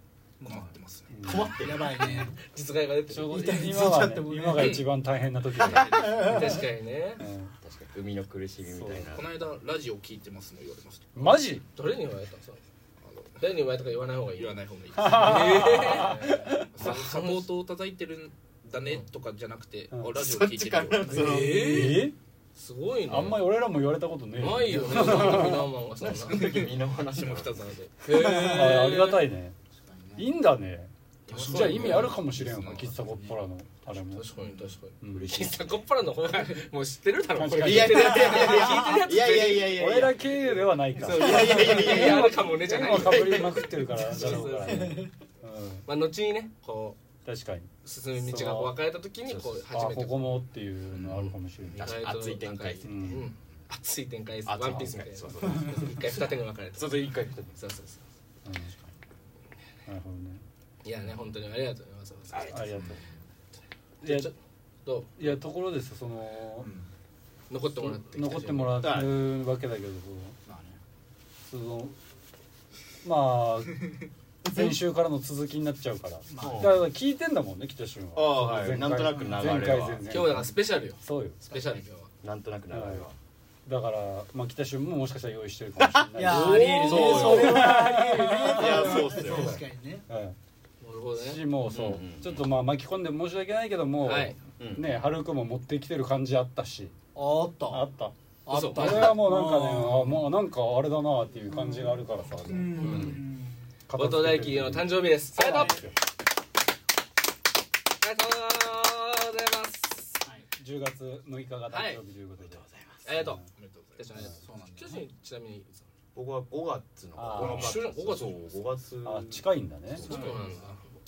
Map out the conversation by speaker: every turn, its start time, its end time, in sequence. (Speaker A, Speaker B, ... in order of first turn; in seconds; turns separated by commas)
Speaker A: 0.4-0.8, Speaker B: 0.4-1.3, Speaker C: 1.1-2.3, Speaker D: 1.2-2.2, Speaker A: 1.5-2.4, Speaker E: 2.4-3.7, Speaker C: 3.1-6.3, Speaker A: 3.2-4.8, Speaker B: 4.5-4.8, Speaker B: 5.6-6.4, Speaker A: 6.0-6.6, Speaker E: 6.1-7.2, Speaker C: 7.2-7.5, Speaker D: 7.6-9.3, Speaker C: 8.7-9.1, Speaker B: 9.1-11.4, Speaker C: 11.2-11.6, Speaker E: 11.7-12.6, Speaker B: 13.0-13.4, Speaker E: 13.4-17.5, Speaker B: 14.4-21.2, Speaker C: 14.9-16.9, Speaker D: 20.1-21.8, Speaker E: 21.1-23.5, Speaker A: 21.1-22.1, Speaker C: 21.4-22.1, Speaker C: 23.1-25.7, Speaker E: 24.4-26.7, Speaker D: 26.0-27.7, Speaker B: 26.3-27.8, Speaker E: 27.6-29.3, Speaker A: 28.1-28.7, Speaker C: 28.1-29.6, Speaker A: 29.7-30.3, Speaker C: 30.2-34.3, Speaker E: 31.3-32.2, Speaker B: 31.3-33.0, Speaker A: 33.1-33.4, Speaker E: 34.1-39.9, Speaker C: 35.0-35.5, Speaker D: 35.1-35.8, Speaker C: 37.4-38.5, Speaker D: 37.6-40.5, Speaker C: 39.7-45.9, Speaker E: 41.0-45.0, Speaker D: 41.0-43.4, Speaker A: 41.1-42.0, Speaker A: 43.9-45.1, Speaker E: 45.9-47.0, Speaker C: 47.2-48.8, Speaker E: 47.8-50.4, Speaker D: 49.3-49.6, Speaker C: 49.7-52.0, Speaker D: 51.7-53.3, Speaker E: 51.8-58.0, Speaker C: 52.8-53.3, Speaker D: 54.5-57.6, Speaker C: 58.5-58.7, Speaker C: 59.9-60.4, Speaker E: 60.8-62.8, Speaker D: 62.3-62.8, Speaker C: 62.5-63.0, Speaker A: 62.7-63.2, Speaker C: 64.0-64.3, Speaker E: 64.0-65.4, Speaker C: 65.2-66.7, Speaker A: 66.6-66.9, Speaker E: 67.5-68.9, Speaker C: 67.8-70.4, Speaker D: 68.8-69.1, Speaker A: 70.5-70.8, Speaker C: 71.5-72.0, Speaker C: 73.0-73.9, Speaker C: 74.5-81.4, Speaker A: 76.3-76.8, Speaker D: 76.4-76.8, Speaker D: 78.2-80.1, Speaker A: 79.1-79.7, Speaker E: 80.1-82.1, Speaker A: 81.5-81.8, Speaker D: 82.2-83.2, Speaker C: 82.7-83.1, Speaker C: 83.7-90.4, Speaker D: 85.8-87.8, Speaker A: 86.2-90.0, Speaker E: 86.3-87.5, Speaker D: 88.5-89.6, Speaker E: 90.8-92.0, Speaker C: 91.2-97.0, Speaker D: 91.7-92.5, Speaker E: 94.0-94.4, Speaker D: 94.6-94.9, Speaker A: 97.2-97.9, Speaker C: 97.7-98.1, Speaker A: 98.5-100.2, Speaker E: 98.5-99.2, Speaker C: 98.7-103.2, Speaker A: 101.5-103.7, Speaker E: 102.8-103.2, Speaker C: 103.9-105.9, Speaker E: 103.9-105.8, Speaker A: 105.5-105.8, Speaker E: 108.0-110.2, Speaker C: 110.6-112.6, Speaker E: 111.7-112.0, Speaker D: 112.4-113.2, Speaker E: 113.0-113.4, Speaker C: 113.1-113.4, Speaker B: 113.5-114.1, Speaker E: 114.0-115.9, Speaker A: 114.2-115.0, Speaker D: 116.2-120.4, Speaker C: 117.2-117.8, Speaker E: 117.3-118.6, Speaker C: 119.0-120.1, Speaker A: 120.0-120.8, Speaker E: 120.0-120.9